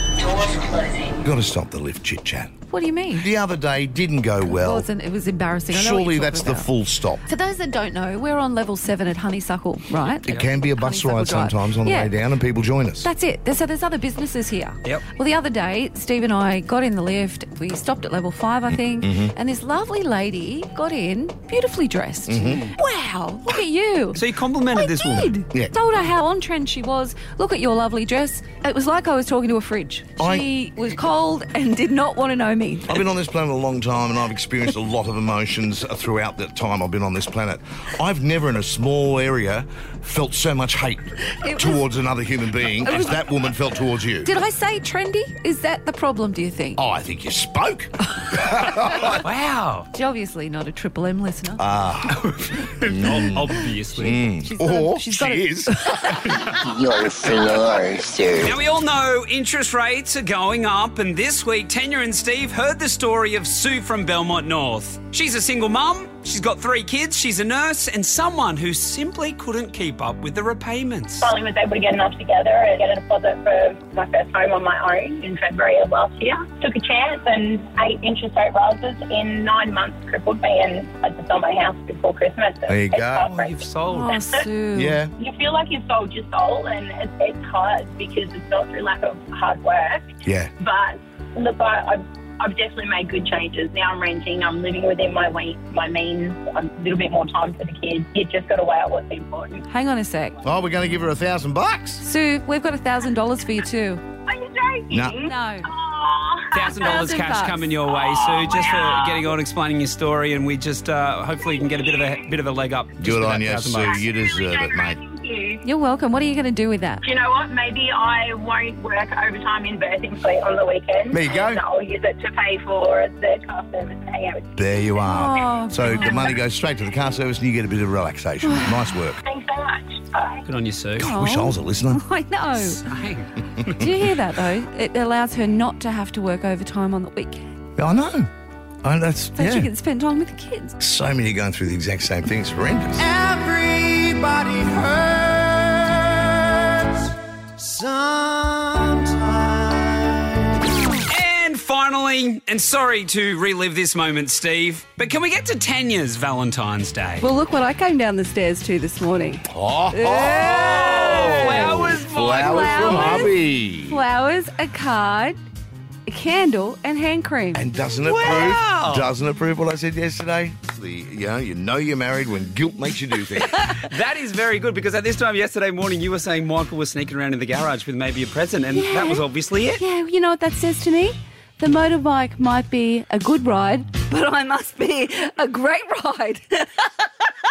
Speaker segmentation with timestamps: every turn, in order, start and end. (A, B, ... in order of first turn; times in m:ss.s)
0:01.1-0:02.5 A
0:02.7-0:03.3 B
0:03.1-0:04.9 A
0:04.4-0:06.7 B
0:05.7-0:07.2 A
0:07.2-0:12.1 B
0:10.2-0:13.1 A
0:13.0-0:33.0 B
0:19.0-0:19.4 A
0:22.3-0:22.7 A
0:24.2-0:25.3 C
0:30.2-0:30.5 A
0:32.9-0:44.3 A
0:41.3-0:41.8 B
0:42.8-0:43.2 B
0:44.2-0:46.8 B
0:46.8-0:49.2 A
0:49.2-0:49.9 C
0:49.9-0:51.6 B
0:51.6-0:52.2 A
0:52.1-0:54.2 C
0:52.8-0:56.2 A
0:54.4-0:56.4 B
0:56.2-0:56.6 C
0:56.5-0:58.6 D
0:58.4-1:11.3 C
1:11.2-1:24.5 E
1:22.7-1:23.3 A
1:23.3-1:24.2 C
1:23.9-1:25.0 B
1:24.8-1:25.1 A
1:25.2-1:39.6 E
1:30.2-1:30.5 A
1:39.7-1:40.4 B
1:40.4-1:42.0 A
1:42.0-1:44.0 B
1:44.3-1:47.1 E
1:44.9-1:45.2 A
1:45.2-1:45.7 B
1:46.5-1:54.0 C
1:46.6-1:47.7 B
1:47.9-1:49.3 E
1:51.5-1:52.0 E
1:53.0-1:55.0 A
1:53.8-1:55.6 E
1:55.6-1:57.0 B
1:57.0-2:05.0 E
2:01.1-2:01.6 A
2:04.6-2:09.2 A
2:05.0-2:06.4 B
2:08.4-2:09.0 B
2:09.2-2:10.4 E
2:10.5-2:11.1 C
2:11.0-2:12.0 A
2:11.0-2:12.8 B
2:12.6-2:14.0 C
2:13.8-2:17.4 B
2:17.8-2:18.3 A
2:18.8-2:19.7 A
2:19.4-2:20.8 B
2:20.8-2:23.1 A
2:23.0-2:30.2 F
2:31.1-2:37.3 C
2:37.2-2:45.4 B
2:39.5-2:44.0 A
2:40.4-2:43.3 C
2:46.1-2:47.7 B
2:47.5-2:53.6 A
2:48.0-2:49.1 C
2:53.8-2:59.8 C
2:58.7-3:06.9 B